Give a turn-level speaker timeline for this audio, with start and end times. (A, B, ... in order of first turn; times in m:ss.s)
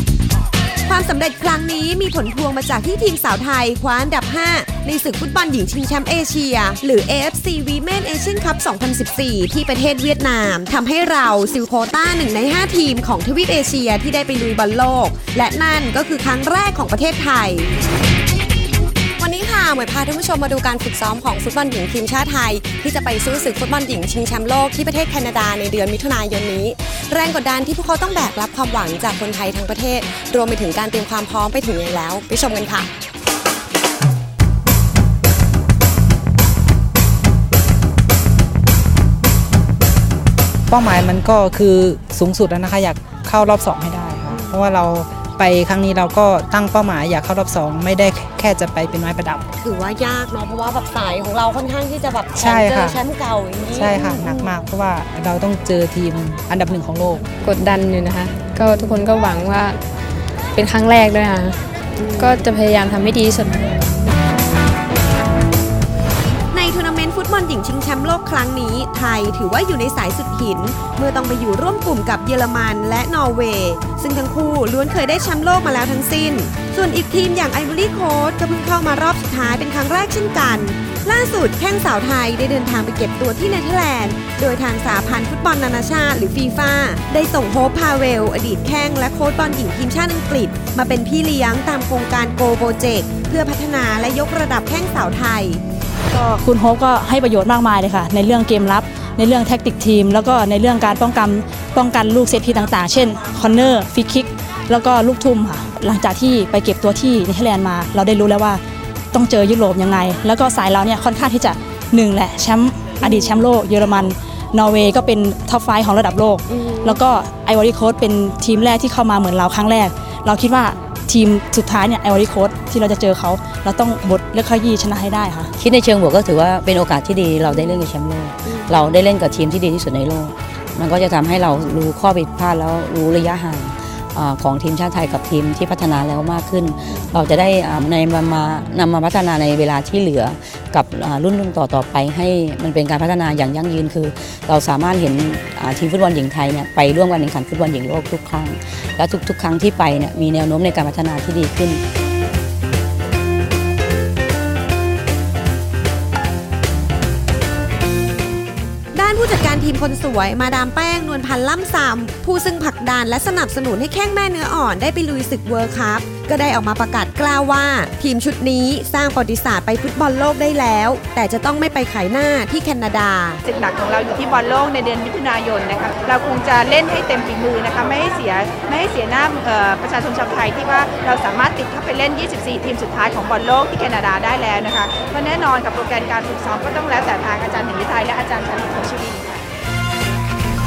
0:00.9-0:17.7 A
0:19.2-0:32.9 A
0:40.7-0:49.5 B
0:49.6-0:54.3 A
0:52.4-0:53.0 B
0:53.8-0:57.2 B
0:57.4-0:59.8 C
1:00.6-1:01.6 C
1:02.1-1:03.9 C
1:06.5-1:35.6 A
1:36.1-1:48.6 D
1:49.1-2:05.5 D
2:05.6-2:31.8 E
2:38.9-2:53.4 A
2:53.4-3:09.4 F